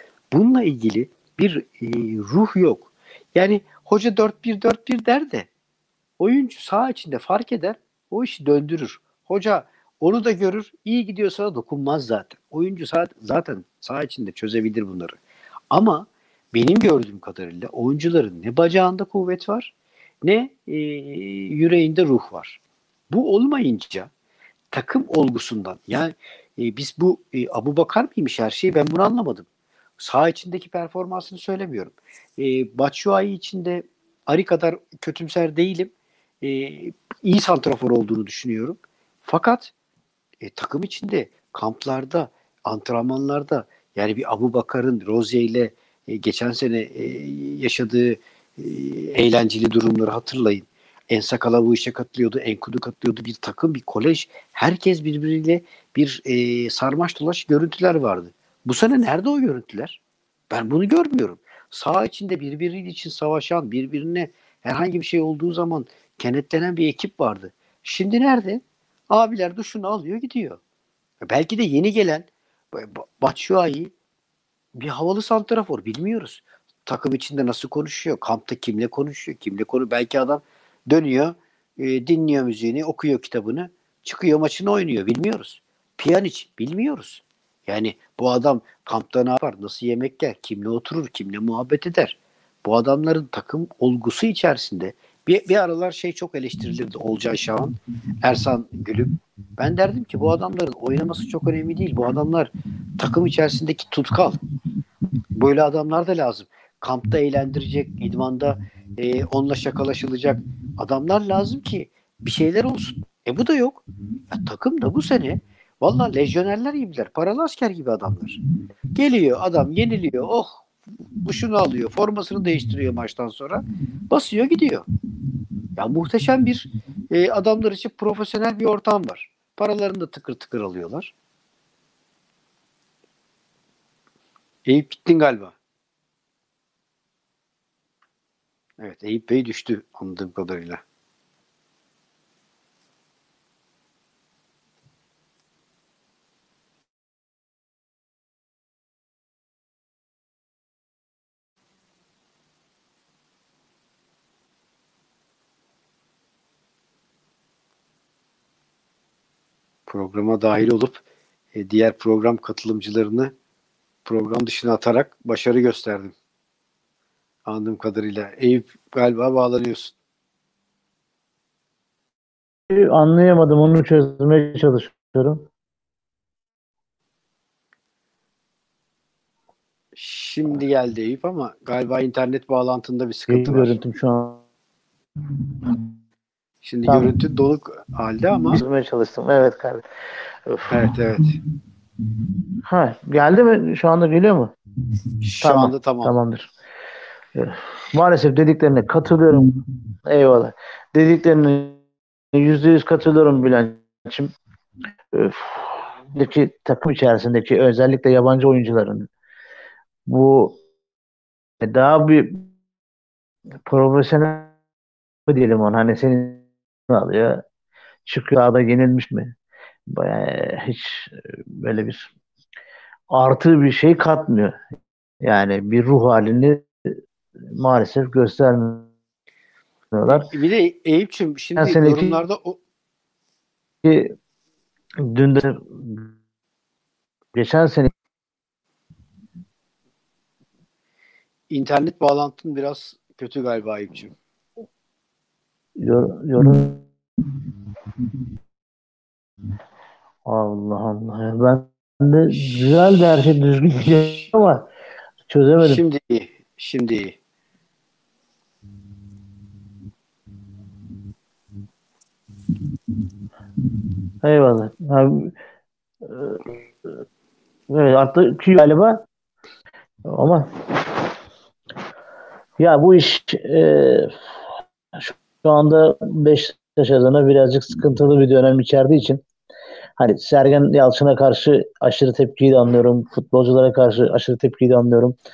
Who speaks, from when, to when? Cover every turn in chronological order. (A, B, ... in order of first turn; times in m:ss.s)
0:00.3-0:05.5 A
0:06.2-0:15.2 A
0:15.7-0:19.7 A
0:20.2-0:24.1 A
0:24.7-0:29.5 A
0:30.0-0:39.7 A
0:40.4-1:00.0 A
1:00.5-1:10.6 A
1:11.2-1:13.9 A
1:14.8-1:44.4 A
1:45.4-1:58.4 A
1:58.9-2:00.7 A
2:01.2-2:04.9 A
2:05.8-2:11.1 A
2:14.7-2:15.6 A
2:18.8-2:20.8 A
2:39.9-2:43.3 A
2:44.1-2:46.1 A
2:47.5-2:49.9 A
2:52.7-2:55.5 B
3:00.0-3:03.8 A
3:03.3-3:04.4 B
3:06.6-3:08.6 A
3:08.5-3:09.8 B
3:10.4-3:10.7 B
3:10.7-3:11.4 A
3:12.7-3:14.6 B
3:15.2-3:16.1 A
3:15.4-3:16.5 B
3:17.4-3:21.8 B
3:22.3-3:24.3 B
3:25.1-3:29.1 B
3:30.1-3:30.6 B
3:31.6-3:32.5 B
3:33.7-3:34.5 B
3:35.3-3:37.4 B
3:38.1-3:39.3 B
3:39.9-3:42.1 B
3:43.1-3:44.6 B
3:45.2-3:47.0 B
3:47.5-3:48.9 B
3:49.9-3:50.3 B
3:50.1-3:52.6 A
3:51.6-3:52.2 B
3:53.8-3:54.1 B
3:55.0-3:56.1 B
3:57.3-3:57.9 B
4:01.5-4:04.1 A
4:05.8-4:06.9 B
4:10.3-4:14.7 B
4:15.3-4:15.8 B
4:15.6-4:17.2 A
4:24.2-4:25.4 B
4:26.0-4:27.0 B
4:27.7-4:29.0 B
4:30.1-4:31.1 B
4:32.6-4:34.2 B
4:34.9-4:39.2 B
4:40.0-4:45.2 B